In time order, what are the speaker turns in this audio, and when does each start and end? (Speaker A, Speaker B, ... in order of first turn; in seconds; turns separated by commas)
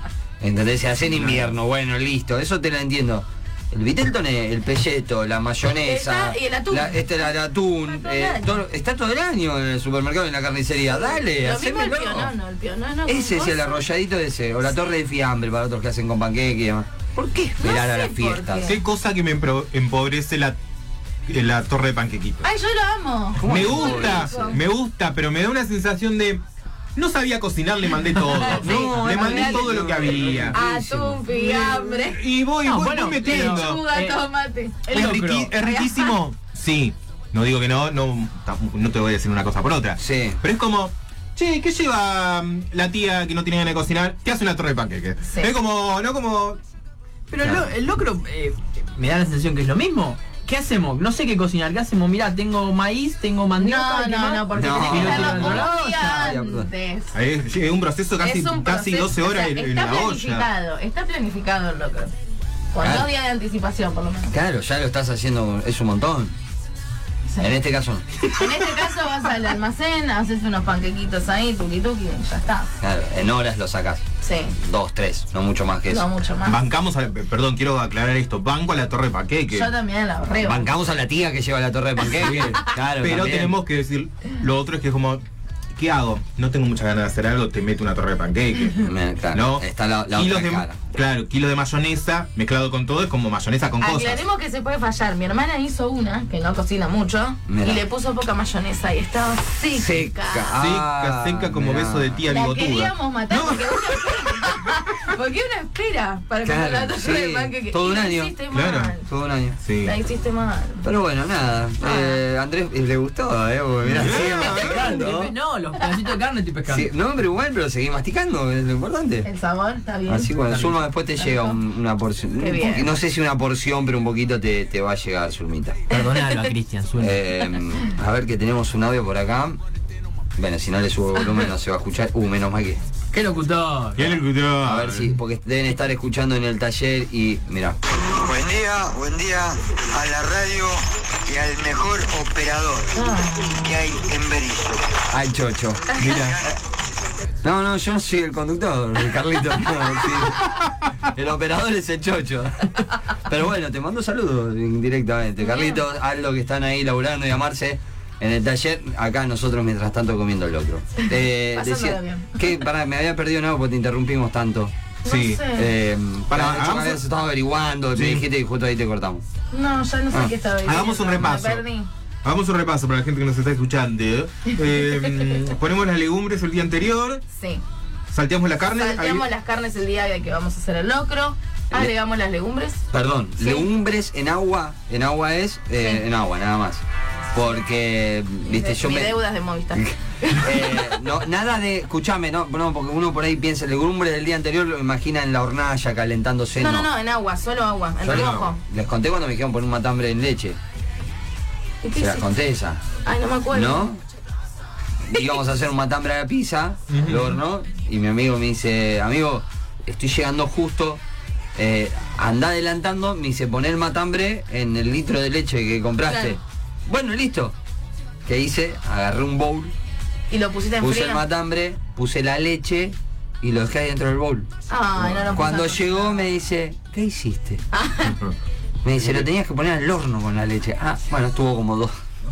Speaker A: 0.4-12.3, Speaker B: 5.8-8.6, Speaker B: 10.9-13.8, Speaker A: 13.1-18.7, Speaker B: 17.2-18.8, Speaker C: 18.6-20.6, Speaker C: 21.3-22.4, Speaker B: 22.4-24.6, Speaker A: 23.4-24.6, Speaker C: 23.4-26.4, Speaker C: 26.9-30.6, Speaker D: 28.2-30.4, Speaker B: 28.5-29.8, Speaker A: 28.6-31.2, Speaker B: 30.5-32.2, Speaker C: 31.3-33.8, Speaker D: 32.6-34.2, Speaker B: 33.1-36.2, Speaker D: 34.9-35.5, Speaker C: 34.9-46.6, Speaker A: 40.0-40.4, Speaker B: 45.2-45.5, Speaker D: 47.3-56.3, Speaker A: 47.4-47.7, Speaker B: 53.6-57.1, Speaker A: 54.5-56.7, Speaker C: 57.1-60.5, Speaker B: 58.2-62.1, Speaker B: 62.7-64.3, Speaker A: 62.8-63.1, Speaker A: 64.3-66.3, Speaker A: 67.4-68.5, Speaker B: 68.2-72.7, Speaker A: 72.8-76.1, Speaker B: 74.2-74.6, Speaker B: 75.9-76.6, Speaker C: 76.4-79.7, Speaker B: 79.5-80.7, Speaker A: 80.4-83.6, Speaker B: 82.3-82.7, Speaker C: 83.0-85.2, Speaker C: 85.7-94.2, Speaker A: 88.8-90.8, Speaker B: 93.8-100.6, Speaker A: 97.5-97.8, Speaker A: 99.7-102.2, Speaker C: 100.5-104.6, Speaker B: 102.3-109.1, Speaker A: 106.4-108.3, Speaker C: 108.5-109.0, Speaker A: 109.0-109.6, Speaker C: 109.6-109.9, Speaker B: 109.8-110.8, Speaker A: 110.8-115.3, Speaker B: 111.8-112.2, Speaker C: 113.8-115.0, Speaker D: 114.0-116.9, Speaker B: 115.8-116.1, Speaker A: 116.7-119.3, Speaker B: 119.2-120.3, Speaker A: 120.1-125.8, Speaker D: 120.5-120.8, Speaker B: 121.2-121.6, Speaker B: 122.4-122.9, Speaker D: 125.9-127.2, Speaker B: 126.0-126.5, Speaker A: 127.0-129.6, Speaker A: 130.4-132.8, Speaker D: 133.1-134.2, Speaker C: 133.9-135.1, Speaker A: 134.6-137.8, Speaker E: 138.0-145.0, Speaker B: 143.0-143.7, Speaker A: 145.1-146.0, Speaker C: 145.9-146.4, Speaker E: 146.1-146.6, Speaker A: 147.4-164.7, Speaker B: 155.4-155.8, Speaker B: 161.0-162.5, Speaker B: 165.0-165.7, Speaker C: 165.0-165.5, Speaker A: 165.5-169.2, Speaker C: 166.3-167.0, Speaker C: 167.9-168.2, Speaker B: 169.5-171.9, Speaker C: 170.6-171.6, Speaker C: 172.2-177.2, Speaker B: 177.3-177.6, Speaker C: 178.1-179.2, Speaker B: 178.7-182.8, Speaker A: 182.9-186.8, Speaker B: 183.4-183.7, Speaker A: 187.3-189.2, Speaker B: 188.4-191.1, Speaker A: 189.7-196.9, Speaker B: 196.5-198.6, Speaker A: 198.0-200.6, Speaker C: 198.1-198.5, Speaker B: 201.8-202.2, Speaker A: 202.0-202.8, Speaker B: 203.0-203.9, Speaker A: 203.5-204.0, Speaker A: 205.1-211.0, Speaker C: 206.9-207.4, Speaker A: 211.5-217.5, Speaker B: 216.1-216.4, Speaker A: 218.2-219.7, Speaker B: 220.3-221.2, Speaker A: 220.8-224.5, Speaker B: 224.7-226.2, Speaker C: 225.0-225.5, Speaker A: 225.3-227.6, Speaker B: 227.7-228.2, Speaker A: 228.8-231.9, Speaker C: 229.0-229.3